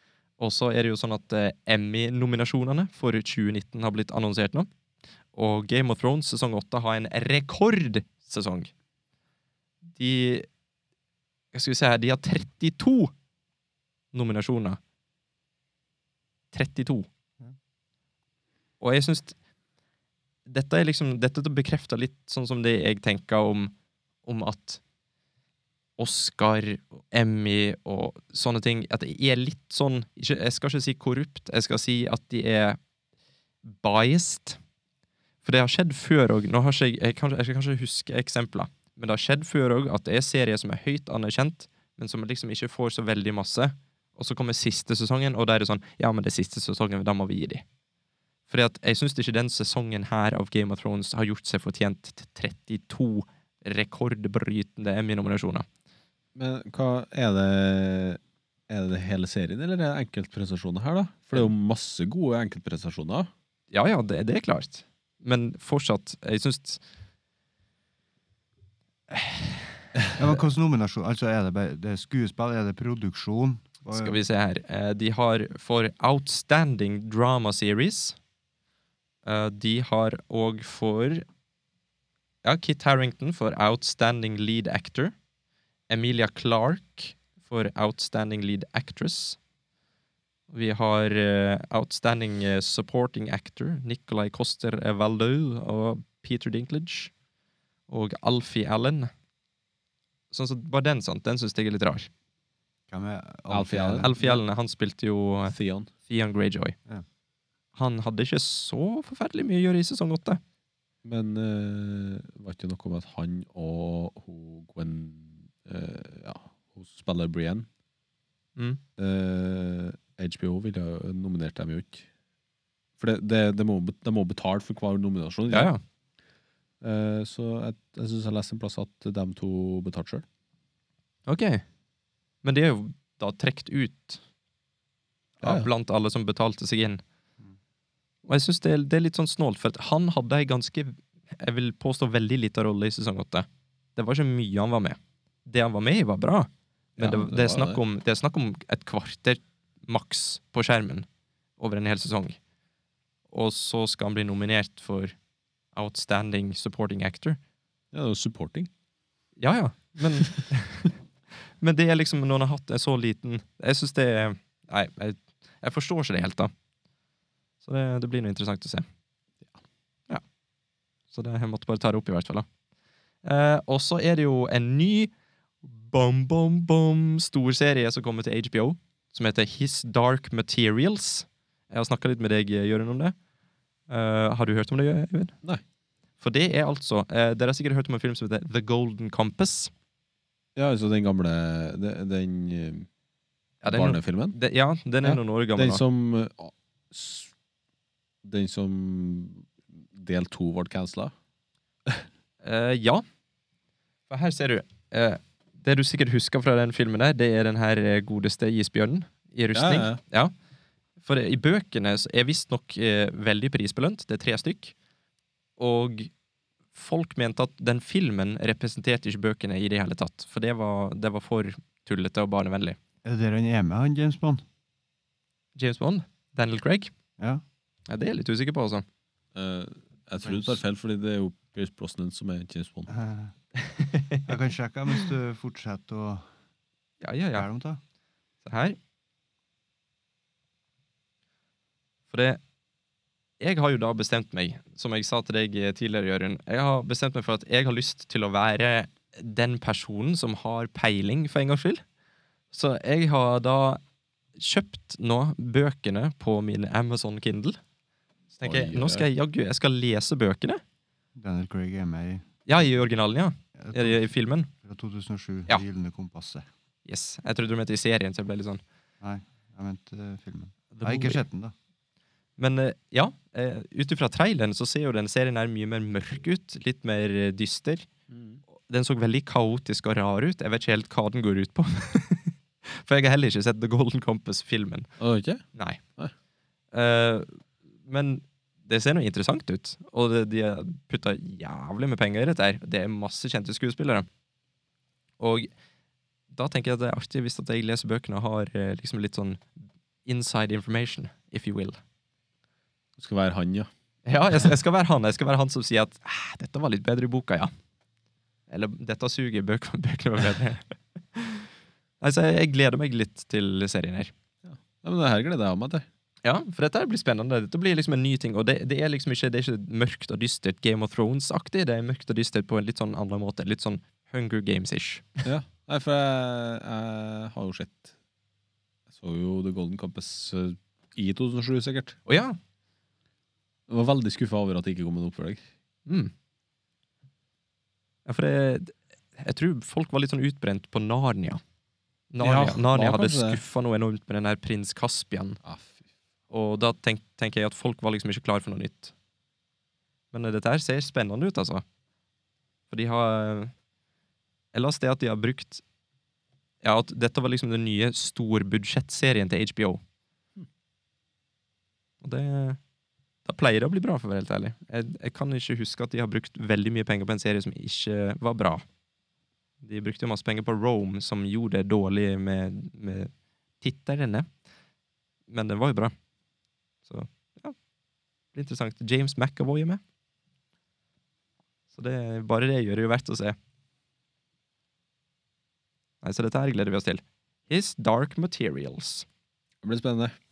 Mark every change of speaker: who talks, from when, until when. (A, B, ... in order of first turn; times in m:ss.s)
0:00.4-0:04.7 A
0:05.3-0:08.7 A
0:09.9-0:10.5 A
0:11.5-0:13.1 A
0:14.1-0:14.8 A
0:16.5-0:17.1 A
0:18.8-0:19.4 A
0:20.4-0:23.7 A
0:24.2-0:24.8 A
0:26.0-0:32.8 A
0:33.6-0:34.6 A
0:35.4-0:47.6 A
0:48.5-0:55.6 A
0:56.3-1:03.3 B
1:03.7-1:06.8 A
1:10.2-1:14.2 C
1:13.9-1:18.2 A
1:19.2-1:21.2 A
1:22.4-1:25.1 A
1:25.9-1:29.4 A
1:30.5-1:37.1 A
1:37.9-1:39.1 A
1:40.3-1:42.1 A
1:42.9-1:44.1 C
1:43.5-1:44.4 B
1:44.0-1:45.6 A
1:45.5-1:45.9 B
1:46.0-1:46.7 A
1:47.7-1:50.4 A
1:51.0-1:57.6 B
1:59.0-2:02.0 B
2:03.0-2:05.7 B
2:05.5-2:05.8 A
2:06.8-2:10.2 B
2:11.3-2:11.6 A
2:12.4-2:14.2 A
2:15.4-2:17.0 A
2:15.4-2:15.7 B
2:18.3-2:31.1 A
2:27.0-2:27.8 B
2:31.6-2:32.4 A
2:33.3-2:35.2 A
2:35.7-2:37.4 A
2:37.9-2:38.7 B
2:39.4-2:41.0 A
2:41.6-2:46.5 A
2:47.6-2:48.8 A
2:51.1-2:52.4 A
2:53.2-2:55.1 A
2:55.6-3:03.1 A
3:03.9-3:05.3 A
3:06.2-3:09.7 A
3:10.6-3:12.9 B
3:13.6-3:15.8 A
3:13.7-3:14.4 B
3:15.0-3:17.3 B
3:18.2-3:21.1 B
3:22.4-3:23.0 A
3:24.1-3:30.3 A
3:29.5-3:30.0 B
3:31.0-3:34.7 A
3:35.6-3:36.1 A
3:36.7-3:42.8 A
3:43.0-3:44.4 C
3:45.6-3:46.9 A
3:47.9-3:48.8 A
3:49.3-3:52.9 B
3:50.2-3:50.6 C
3:52.9-3:53.3 C
3:53.6-3:54.3 A
3:54.2-3:56.2 C
3:57.0-3:57.5 A
3:57.3-3:57.8 C
3:58.4-3:58.8 A
4:02.1-4:02.4 A
4:03.4-4:11.8 A
4:12.5-4:13.8 A
4:14.4-4:17.6 A
4:18.3-4:20.6 A
4:18.4-4:19.1 B
4:21.1-4:22.2 C
4:22.4-4:24.5 A
4:23.6-4:24.1 C
4:24.6-4:26.4 C
4:26.8-4:28.6 A
4:29.0-4:31.5 C
4:30.7-4:31.2 A
4:32.4-4:37.9 A
4:38.1-4:38.4 B
4:38.5-4:44.9 A
4:45.0-4:45.4 B
4:45.6-4:45.8 A
4:46.7-4:54.1 A
4:55.2-4:55.5 A
4:56.3-4:59.4 A
5:00.0-5:01.8 A
5:03.0-5:03.7 B
5:04.0-5:07.5 A
5:08.5-5:11.4 A
5:12.0-5:14.1 A
5:14.4-5:15.8 B
5:16.2-5:25.2 A
5:25.2-5:27.9 B
5:28.9-5:32.0 B
5:32.0-5:32.4 A
5:33.7-5:35.4 B
5:35.9-5:36.1 A
5:38.0-5:41.4 A
5:42.1-5:45.4 A
5:42.2-5:43.4 B
5:45.4-5:45.8 B
5:46.3-5:48.9 A
5:50.1-5:51.6 A
5:52.7-5:53.5 A
5:54.5-5:55.6 A
5:56.6-5:59.8 A
6:02.0-6:02.6 A
6:03.2-6:08.6 A
6:09.6-6:14.3 A
6:15.3-6:15.9 A
6:16.8-6:17.6 A
6:18.3-6:19.8 A
6:21.7-6:23.4 A
6:26.0-6:29.0 A
6:29.6-6:30.1 B